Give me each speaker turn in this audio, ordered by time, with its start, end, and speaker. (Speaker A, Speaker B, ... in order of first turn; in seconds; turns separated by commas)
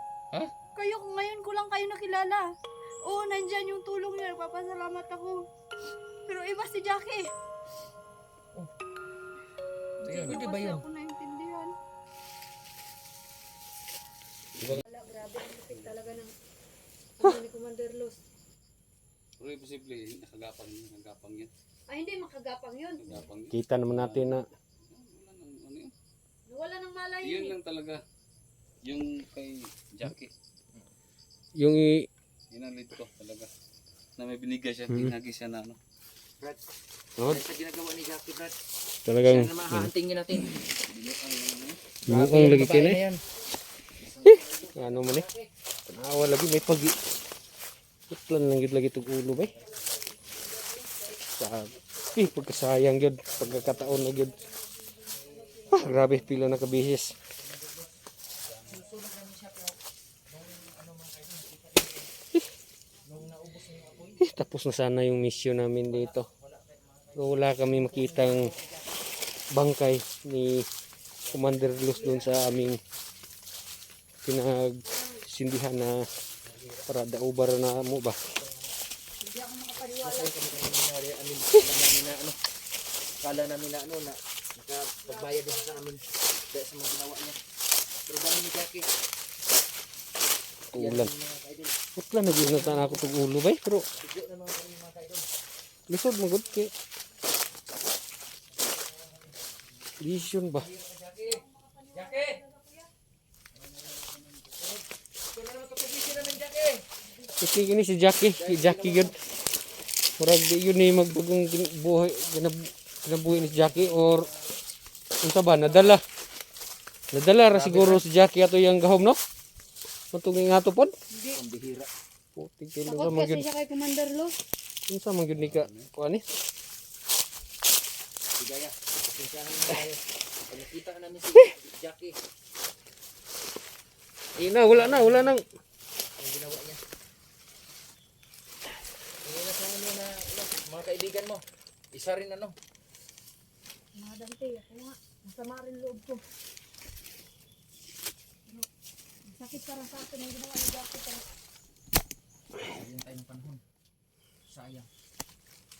Speaker A: 0.8-2.4, Speaker A: 3.0-5.4, Speaker A: 6.3-7.3, Speaker A: 10.0-11.7, Speaker B: 10.0-10.8, Speaker A: 14.7-16.3, Speaker C: 15.7-15.9, Speaker A: 17.2-18.2, Speaker C: 19.4-21.5, Speaker A: 21.9-23.0, Speaker C: 23.0-25.9, Speaker D: 23.5-24.4, Speaker A: 26.5-27.6, Speaker C: 27.2-28.0, Speaker C: 28.8-30.3, Speaker D: 31.6-32.1, Speaker C: 32.5-33.5, Speaker C: 34.2-35.8, Speaker B: 37.3-38.5, Speaker D: 39.0-39.9, Speaker B: 39.2-43.2, Speaker D: 42.0-43.0, Speaker B: 44.0-45.5, Speaker D: 44.2-45.2, Speaker D: 45.9-47.0, Speaker D: 48.1-49.6, Speaker B: 49.4-49.9, Speaker D: 51.4-54.4, Speaker B: 52.1-52.7, Speaker B: 53.2-54.3, Speaker B: 55.1-58.0, Speaker D: 55.7-57.1, Speaker C: 58.5-58.8, Speaker B: 58.6-59.8, Speaker B: 60.3-62.1, Speaker B: 63.0-64.2, Speaker D: 64.2-66.3, Speaker B: 65.9-68.9, Speaker D: 67.2-68.5, Speaker D: 69.5-70.7, Speaker D: 71.3-72.8, Speaker B: 71.3-72.5, Speaker D: 74.2-76.0, Speaker A: 74.8-75.2, Speaker B: 76.4-76.9, Speaker D: 76.9-78.2, Speaker B: 78.3-78.7, Speaker A: 79.2-80.3, Speaker B: 80.0-82.4, Speaker B: 83.2-87.4, Speaker A: 85.0-85.8, Speaker B: 88.1-88.8, Speaker D: 90.7-91.1, Speaker B: 90.7-91.8, Speaker D: 92.0-93.9, Speaker B: 92.4-93.1, Speaker B: 94.0-95.3, Speaker D: 95.9-96.7, Speaker B: 98.6-99.6, Speaker D: 100.0-100.7, Speaker B: 100.5-101.4, Speaker A: 101.2-102.9, Speaker B: 101.9-102.4, Speaker B: 103.5-106.8, Speaker A: 107.1-107.7, Speaker D: 107.4-109.1, Speaker B: 108.3-109.2, Speaker D: 110.2-114.3, Speaker B: 113.3-114.5, Speaker D: 115.2-116.0, Speaker D: 117.1-119.2, Speaker C: 117.5-118.0, Speaker D: 120.1-120.9, Speaker A: 121.1-121.4, Speaker B: 121.3-121.9, Speaker D: 122.3-123.5, Speaker A: 122.8-124.3, Speaker D: 124.9-126.2, Speaker C: 125.3-125.9, Speaker B: 128.4-132.2, Speaker D: 134.4-135.4, Speaker B: 134.4-135.4, Speaker B: 136.2-136.8, Speaker B: 139.2-142.5, Speaker A: 143.9-146.2, Speaker A: 149.3-151.2, Speaker B: 152.7-153.6, Speaker B: 154.5-154.9